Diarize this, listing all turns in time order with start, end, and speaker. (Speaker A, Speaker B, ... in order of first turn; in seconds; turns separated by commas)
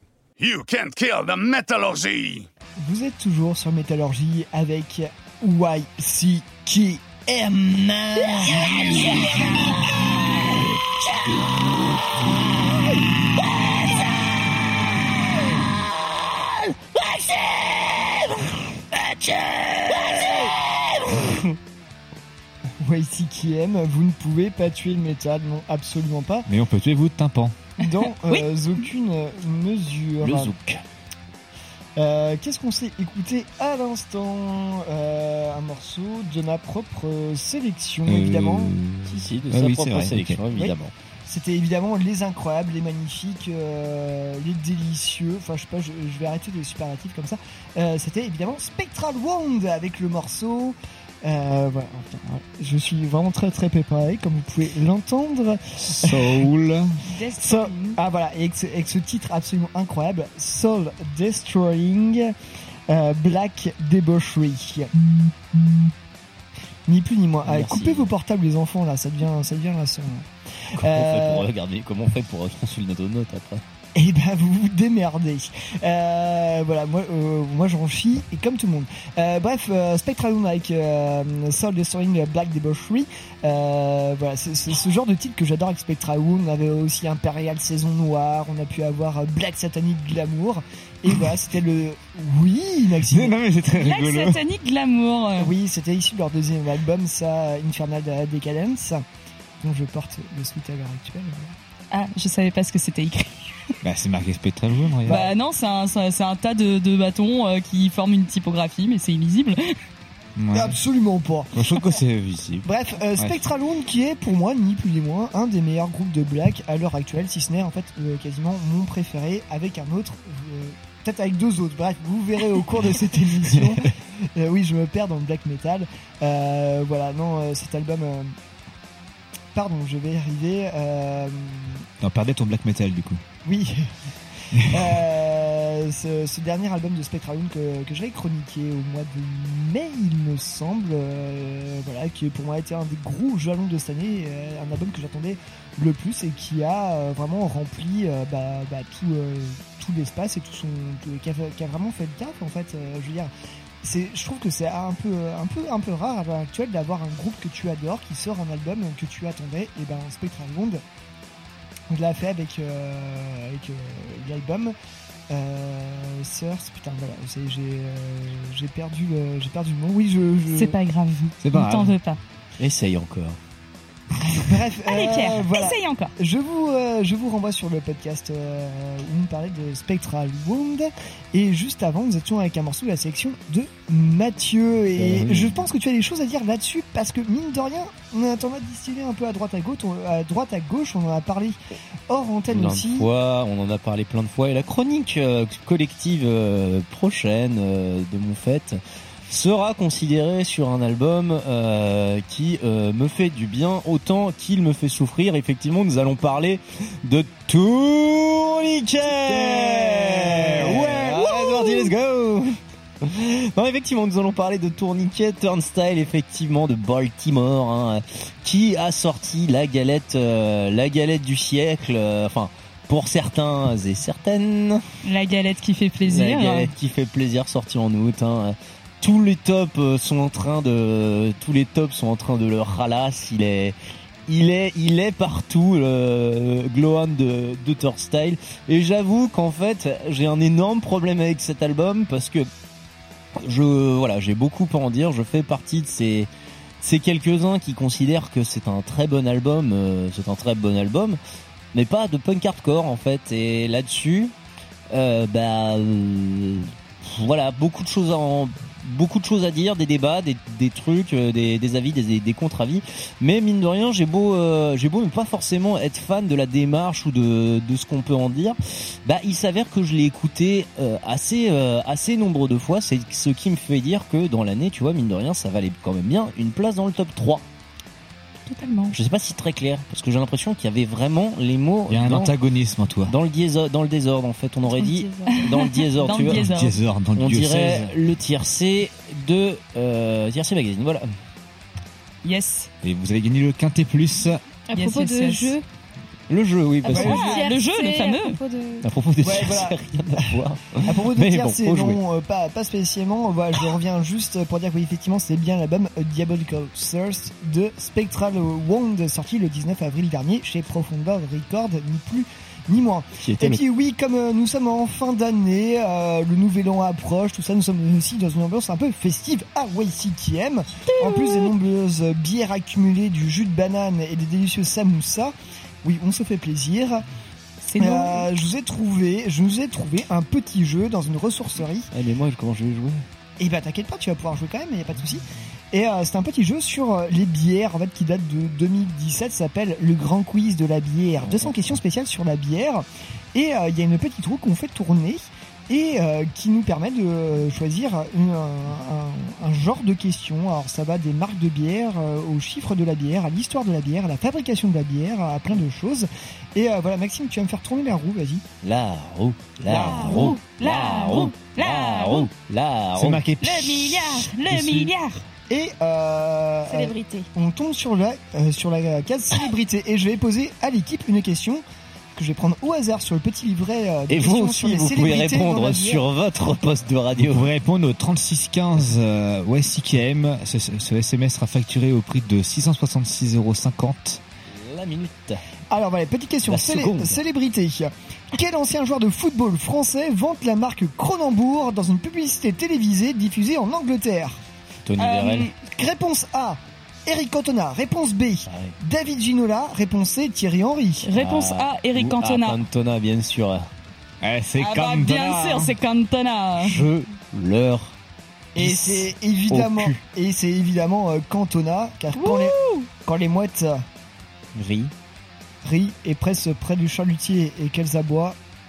Speaker A: 0.4-2.5, Speaker B: 2.8-9.3, Speaker B: 22.8-26.5, Speaker C: 26.5-27.6, Speaker B: 27.8-30.6, Speaker D: 27.8-28.4, Speaker E: 30.2-30.8, Speaker B: 31.9-38.7, Speaker C: 38.1-40.7, Speaker E: 39.1-40.9, Speaker B: 41.2-56.4, Speaker C: 55.9-56.9, Speaker D: 57.1-58.0, Speaker B: 57.4-62.3, Speaker B: 62.9-64.9, Speaker B: 66.9-71.5, Speaker E: 67.4-68.1, Speaker E: 70.8-73.6, Speaker B: 73.9-93.3, Speaker C: 93.1-94.4, Speaker D: 93.7-95.5, Speaker B: 95.4-99.0, Speaker B: 99.6-101.5, Speaker D: 101.9-103.4, Speaker C: 103.8-105.3, Speaker D: 105.0-109.6, Speaker C: 110.4-110.8, Speaker B: 110.5-111.5, Speaker C: 111.5-113.4, Speaker B: 112.6-128.3, Speaker B: 129.5-131.9, Speaker C: 132.0-133.2, Speaker B: 133.4-133.9, Speaker C: 134.5-135.0, Speaker B: 134.7-153.3, Speaker B: 153.8-160.8, Speaker B: 161.9-164.7, Speaker B: 165.3-170.8, Speaker D: 170.5-172.2, Speaker C: 171.4-171.9, Speaker E: 172.6-173.4, Speaker B: 174.3-191.6, Speaker D: 174.9-176.1, Speaker E: 184.9-185.6, Speaker B: 192.1-193.1, Speaker E: 192.5-224.8, Speaker B: 209.0-211.4, Speaker D: 225.0-226.7, Speaker E: 226.1-233.7, Speaker E: 234.3-242.5, Speaker E: 243.4-246.3, Speaker E: 246.8-251.2, Speaker E: 251.7-254.3, Speaker E: 254.9-277.4, Speaker D: 278.5-278.9, Speaker E: 278.9-282.3, Speaker C: 281.9-283.1, Speaker E: 283.1-286.5, Speaker F: 284.7-285.5, Speaker D: 285.3-286.7, Speaker C: 286.3-287.9, Speaker E: 287.1-291.1, Speaker D: 292.2-292.7, Speaker C: 292.8-294.4, Speaker F: 294.7-295.6, Speaker D: 294.7-295.5, Speaker E: 296.3-297.2, Speaker F: 296.8-298.9, Speaker D: 296.9-298.4, Speaker E: 298.8-302.0, Speaker B: 299.2-300.4, Speaker B: 300.9-327.0, Speaker E: 313.2-313.6, Speaker D: 320.9-321.3, Speaker D: 327.6-328.2, Speaker B: 327.8-331.9, Speaker E: 331.9-333.1, Speaker B: 333.4-358.4, Speaker E: 341.2-341.8, Speaker E: 358.6-363.4, Speaker F: 359.7-360.4, Speaker D: 360.0-362.3, Speaker C: 362.9-364.9, Speaker D: 363.4-365.2, Speaker B: 365.5-371.6, Speaker F: 366.7-367.3, Speaker B: 372.1-376.0, Speaker E: 374.1-377.4, Speaker C: 377.2-384.2, Speaker E: 384.5-385.4, Speaker B: 385.7-394.4, Speaker E: 386.4-387.2, Speaker E: 394.9-395.5, Speaker D: 395.0-395.5, Speaker B: 395.6-401.1, Speaker E: 398.4-398.7, Speaker D: 401.0-402.6, Speaker E: 401.1-403.7, Speaker C: 404.2-405.8, Speaker D: 404.6-406.8, Speaker E: 406.6-407.9, Speaker B: 408.6-413.9, Speaker E: 408.6-410.0, Speaker D: 412.2-412.7, Speaker E: 414.5-414.9, Speaker B: 415.6-418.4